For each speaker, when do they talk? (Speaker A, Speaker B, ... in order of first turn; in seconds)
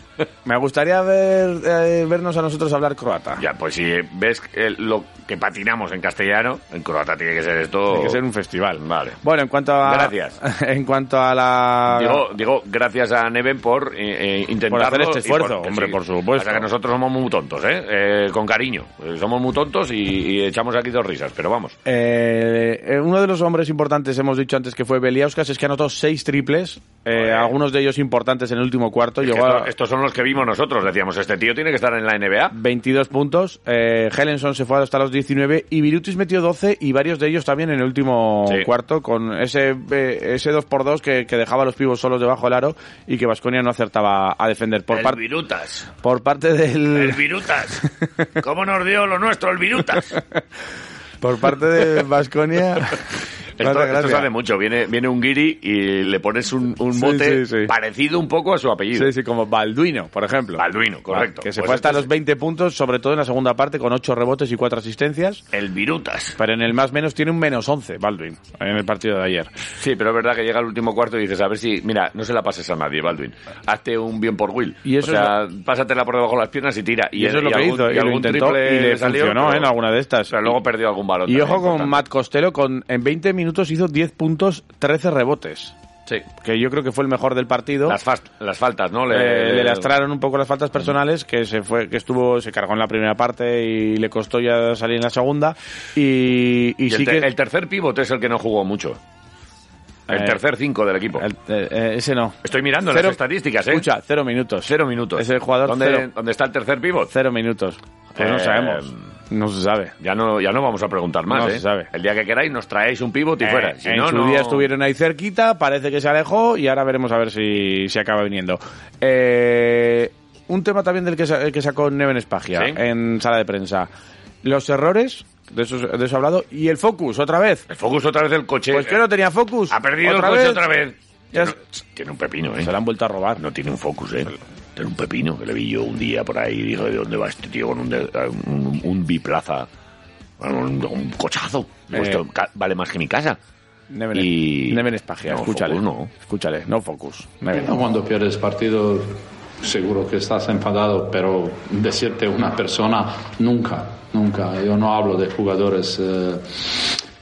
Speaker A: 0.5-3.4, 7.9-12.3, 14.7-16.7, 21.9-29.7, 32.5-45.2, 46.0-47.2, 51.2-53.0, 53.6-54.3, 56.9-57.7, 58.9-65.4, 66.4-69.5, 74.8-75.3, 77.2-80.6, 81.3-85.7, 86.4-88.0, 89.1-97.3, 100.1-100.4, 101.2-102.4, 102.9-106.1, 107.1-110.0, 111.3-111.9, 113.4-123.9, 124.4-127.7, 128.7-130.7, 132.6-133.4, 141.9-142.2, 143.9-147.9
Speaker B: 3.4-8.2, 8.8-9.2, 9.8-10.4, 11.9-21.8, 27.1-27.5, 29.2-32.5, 44.9-45.9, 46.9-47.8, 48.4-50.2, 53.6-59.1, 60.6-62.1, 65.5-66.4, 69.8-79.7, 80.3-82.0, 87.9-89.9, 96.9-99.0, 100.1-101.2, 102.4-103.9, 104.7-107.1, 108.2-109.0, 110.0-114.7, 122.5-122.8, 127.7-129.0, 129.7-132.7, 133.4-139.7, 140.4-143.4, 144.1-146.1
Speaker C: 147.5-157.0